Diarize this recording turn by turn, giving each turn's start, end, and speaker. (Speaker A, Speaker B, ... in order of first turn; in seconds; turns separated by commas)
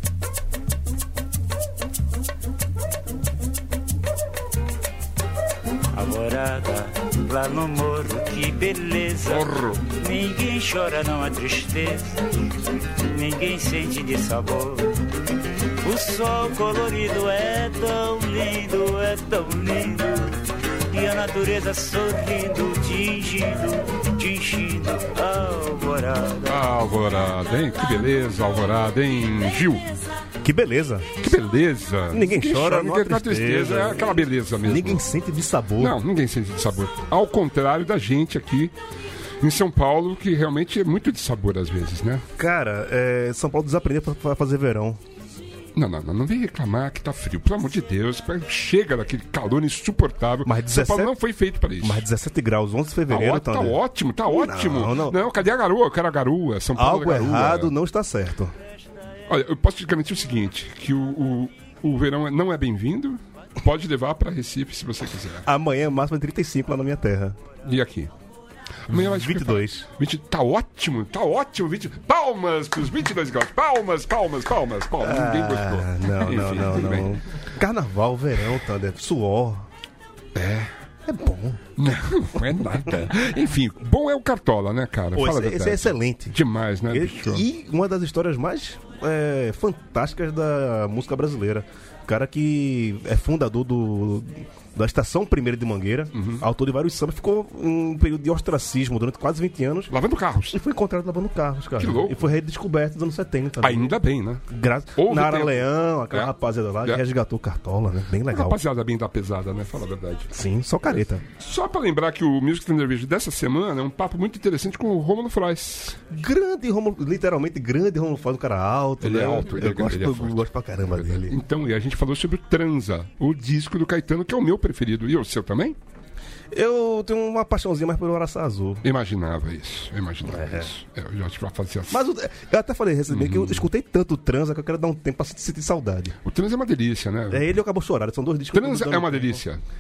Speaker A: 5.9-12.2, Speaker B: 9.2-9.8, Speaker A: 13.0-15.0, Speaker A: 15.8-20.4, Speaker A: 20.9-26.6, Speaker B: 26.4-29.9, Speaker C: 30.4-31.2, Speaker B: 31.2-35.0, Speaker C: 32.1-36.0, Speaker B: 35.8-38.7, Speaker B: 39.4-42.2, Speaker C: 42.4-45.0, Speaker B: 45.8-52.0, Speaker C: 50.4-51.1, Speaker C: 51.8-55.2, Speaker B: 53.1-57.7, Speaker C: 56.8-58.5, Speaker B: 59.3-65.5, Speaker C: 65.5-67.4, Speaker B: 67.6-68.1, Speaker B: 68.8-77.2, Speaker C: 68.9-69.9, Speaker C: 75.0-79.7, Speaker B: 80.3-80.7, Speaker C: 81.1-81.7, Speaker B: 81.8-87.5, Speaker C: 85.1-86.4, Speaker C: 86.9-99.9, Speaker B: 96.1-96.4, Speaker B: 99.9-100.6, Speaker C: 100.5-108.6, Speaker B: 101.8-102.2, Speaker B: 103.6-104.4, Speaker B: 105.0-106.3, Speaker B: 108.3-110.3, Speaker C: 110.3-111.2, Speaker B: 111.3-116.0, Speaker C: 116.1-121.4, Speaker B: 119.0-125.8, Speaker C: 126.5-128.8, Speaker B: 128.8-132.0, Speaker C: 130.3-130.7, Speaker C: 131.9-136.2, Speaker B: 133.1-133.7, Speaker B: 136.2-137.6, Speaker C: 137.3-139.4, Speaker B: 138.5-139.6